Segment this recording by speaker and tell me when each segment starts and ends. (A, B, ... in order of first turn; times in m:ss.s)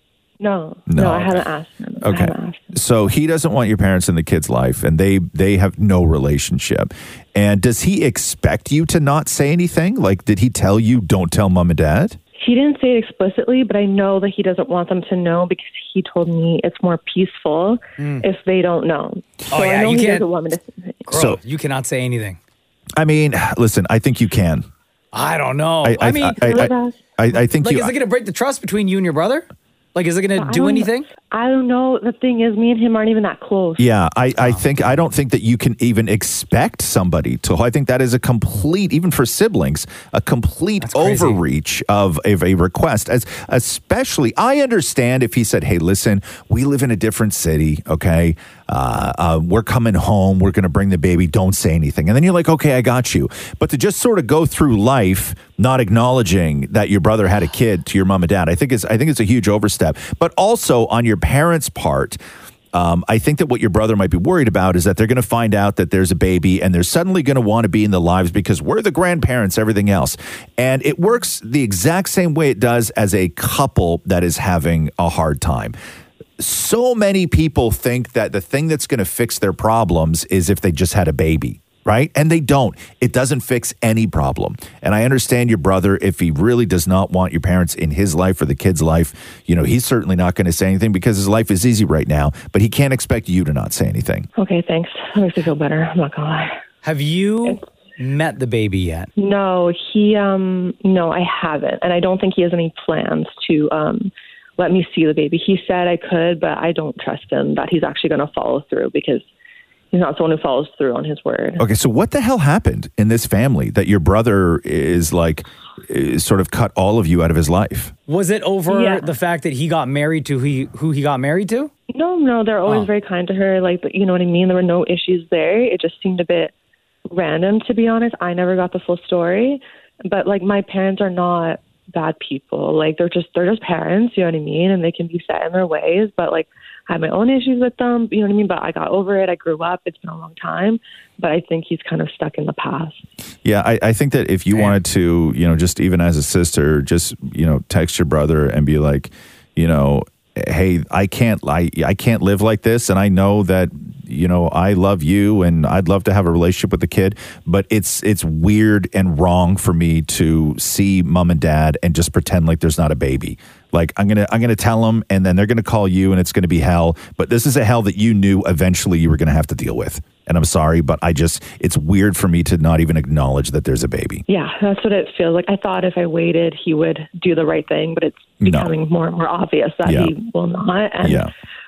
0:00.4-0:02.6 A
0:00.9-0:01.4 B
0:02.0-0:12.2 B
0:12.4-0:21.0 A
0:18.0-0:18.2 C
0:19.5-0:20.3 C
0:21.0-0:22.4 C
0:21.1-0:21.4 B
0:23.0-0:24.7 B
0:25.1-0:26.5 C
0:25.8-0:27.9 B
0:26.4-0:27.0 A
0:27.6-0:31.1 C
0:30.4-0:33.8 A
0:33.8-1:02.2 B
0:34.4-0:34.7 C
0:40.8-0:41.4 C
1:02.7-1:15.7 B
1:16.4-1:34.3 B
1:34.4-1:36.5 A
1:36.8-1:39.1 C
1:39.2-1:49.2 A
1:49.9-1:51.6 A
1:51.6-1:57.9 B
1:58.1-2:01.7 C
1:58.7-1:59.0 A
2:01.9-2:06.5 A
2:07.1-2:23.0 A
2:23.4-2:54.2 B
2:54.3-3:01.3 A
2:58.4-2:58.7 B
2:59.8-3:00.1 B
3:01.0-3:01.3 B